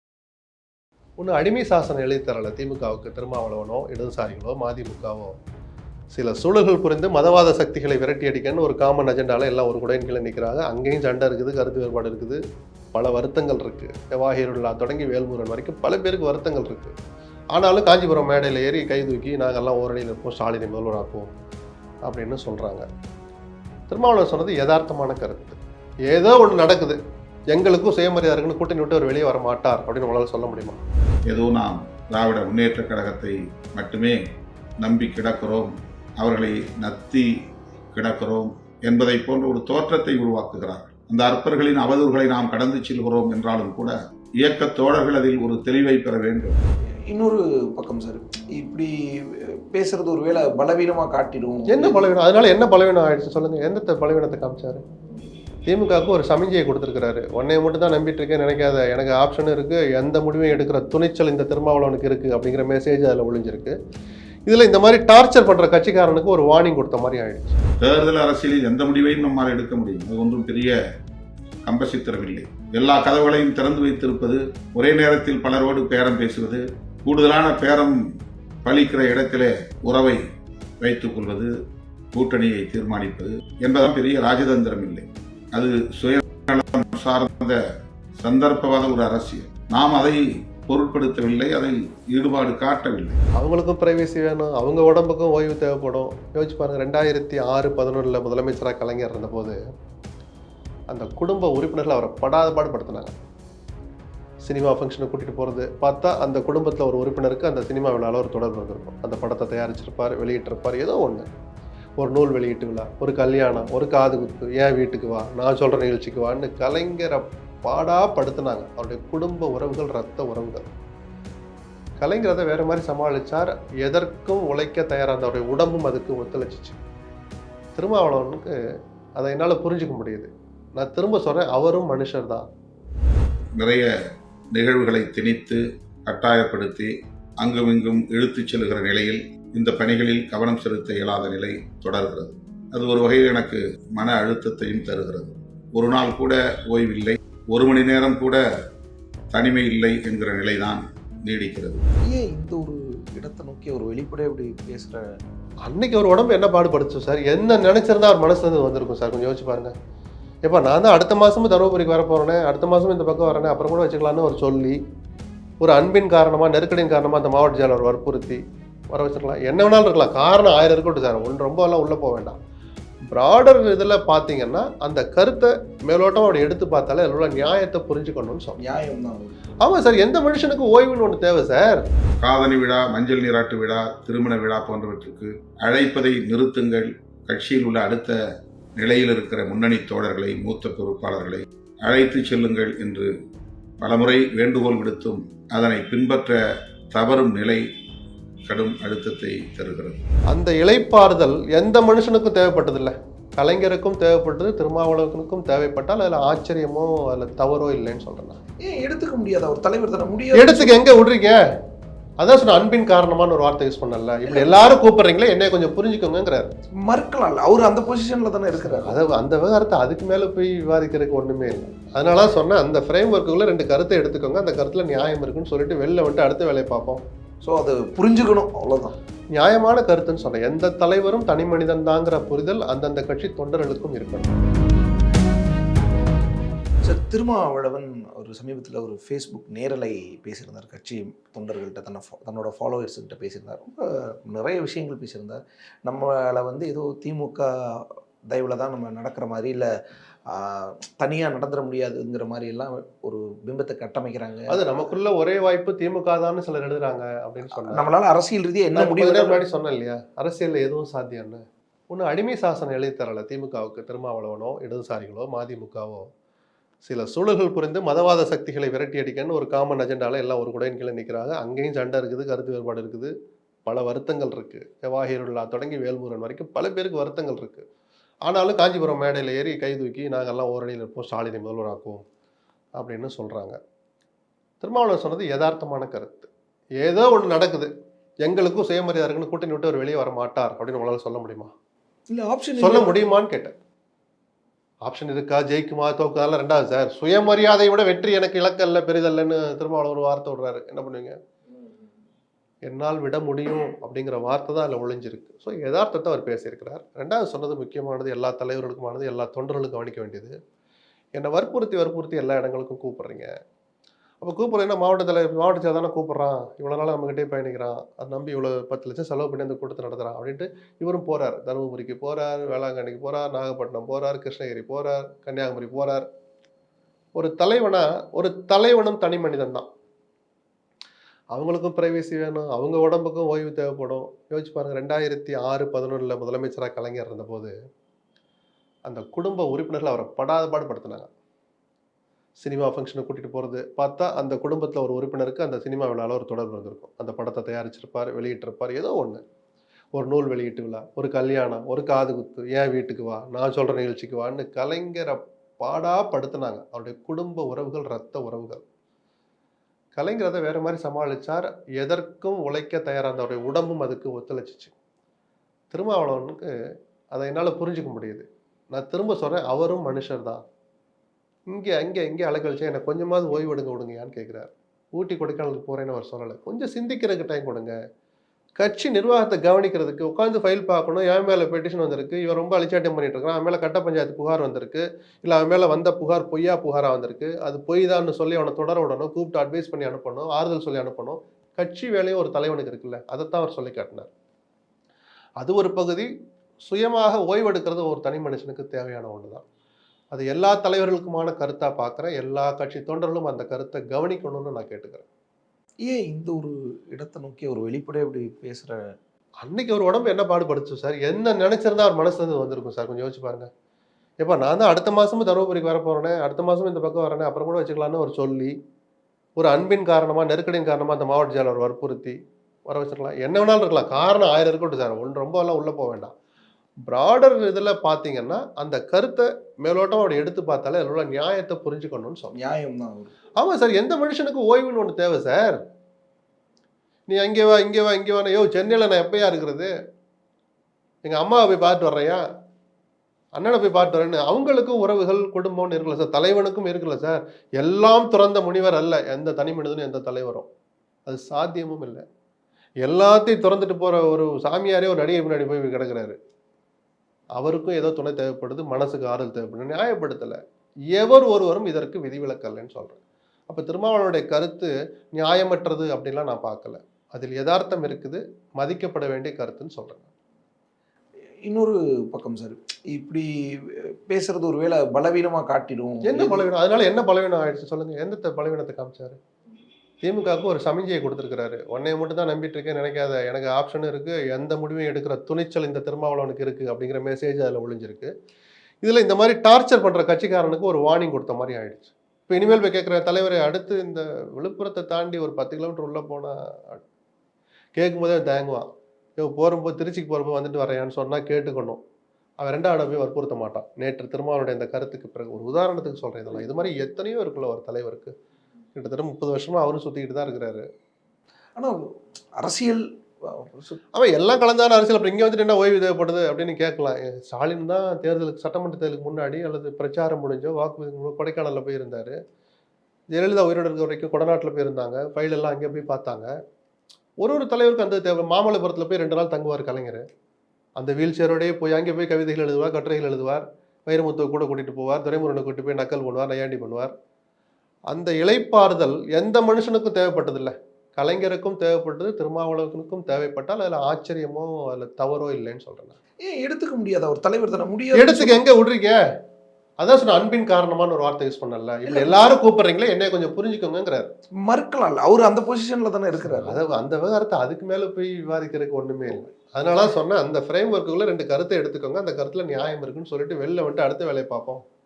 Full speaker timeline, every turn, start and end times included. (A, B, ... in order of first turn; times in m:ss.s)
0:01.2-0:05.3 A
0:06.1-0:12.4 A
0:12.9-0:17.0 A
0:17.5-0:21.3 A
0:22.0-0:22.9 A
0:23.9-0:27.0 A
0:27.5-0:30.8 A
0:31.3-0:34.2 B
0:34.8-0:37.3 B
0:37.9-0:46.6 B
0:47.1-0:52.1 C
0:51.7-0:54.8 A
0:55.7-1:03.8 A
1:04.5-1:07.6 A
1:07.8-1:10.8 B
1:11.6-1:18.0 B
1:18.6-1:20.2 B
1:20.8-1:21.5 B
1:22.1-1:27.6 B
1:28.2-1:33.2 B
1:33.4-1:39.6 A
1:40.9-1:43.1 A
1:44.4-1:51.3 A
1:52.0-2:00.7 A
2:02.0-2:06.8 A
2:07.8-2:08.5 A
2:09.2-2:12.5 A
2:13.6-2:13.9 B
2:14.5-2:16.9 B
2:17.4-2:28.4 B
2:29.3-2:31.8 B
2:32.1-2:35.0 C
2:35.7-2:39.7 A
2:40.4-2:44.8 A
2:45.6-2:48.4 A
2:48.9-2:52.4 A
2:53.1-2:58.6 A
2:58.6-2:59.4 C
2:59.6-3:01.8 A
3:02.2-3:08.2 B
3:08.8-3:13.1 B
3:13.8-3:16.4 B
3:16.9-3:17.6 B
3:18.5-3:20.0 B
3:20.3-3:28.4 A
3:28.6-3:30.8 C
3:30.3-3:31.4 A
3:32.2-3:36.5 A
3:34.3-3:34.8 C
3:36.8-3:38.9 C
3:38.6-3:47.0 A
3:47.4-3:49.0 C
3:49.3-3:54.3 A
3:56.8-4:09.7 C
4:10.3-4:14.7 C
4:14.5-4:17.9 A
4:17.5-4:19.4 C
4:18.7-4:26.1 A
4:26.8-4:33.1 A
4:33.7-4:37.6 A
4:38.3-4:42.0 A
4:42.8-4:43.6 A
4:44.6-4:46.3 A
4:46.8-4:47.7 A
4:48.2-4:51.5 A
4:52.1-4:53.0 C
4:52.6-4:53.6 A
4:54.8-5:01.2 A
5:02.7-5:10.4 A
5:11.2-5:13.3 A
5:14.2-5:26.0 A
5:27.2-5:29.7 A
5:31.3-5:37.5 A
5:38.9-5:41.1 A
5:42.4-5:49.2 A
5:49.9-5:58.6 A
6:00.0-6:04.7 A
6:05.7-6:06.5 A
6:07.1-6:10.4 A
6:11.5-6:17.8 A
6:18.6-6:34.1 A
6:35.4-6:36.1 A
6:36.6-6:39.4 A
6:40.1-6:45.0 A
6:45.8-6:48.8 C
6:49.4-6:53.5 A
6:54.2-6:58.5 A
6:59.4-7:06.1 A
7:06.8-7:12.4 A
7:12.3-7:13.1 C
7:13.4-7:15.6 A
7:17.1-7:19.7 A
7:21.0-7:22.2 A
7:23.4-7:30.5 A
7:31.1-7:32.0 A
7:32.8-7:36.2 A
7:37.4-7:40.4 A
7:40.9-7:50.1 A
7:51.4-7:56.5 C
7:56.0-7:59.2 A
8:00.0-8:08.1 A
8:08.8-8:16.8 A
8:17.8-8:18.7 A
8:19.2-8:21.8 A
8:22.4-8:28.1 A
8:28.8-8:30.6 A
8:32.4-8:33.8 C
8:34.0-8:42.2 A
8:43.1-8:46.3 A
8:47.2-8:50.0 A
8:50.8-8:56.9 A
8:57.9-9:06.0 A
9:06.2-9:08.4 C
9:07.9-9:09.0 A
9:09.8-9:14.1 A
9:11.9-9:12.3 C
9:14.4-9:16.6 C
9:16.2-9:24.6 A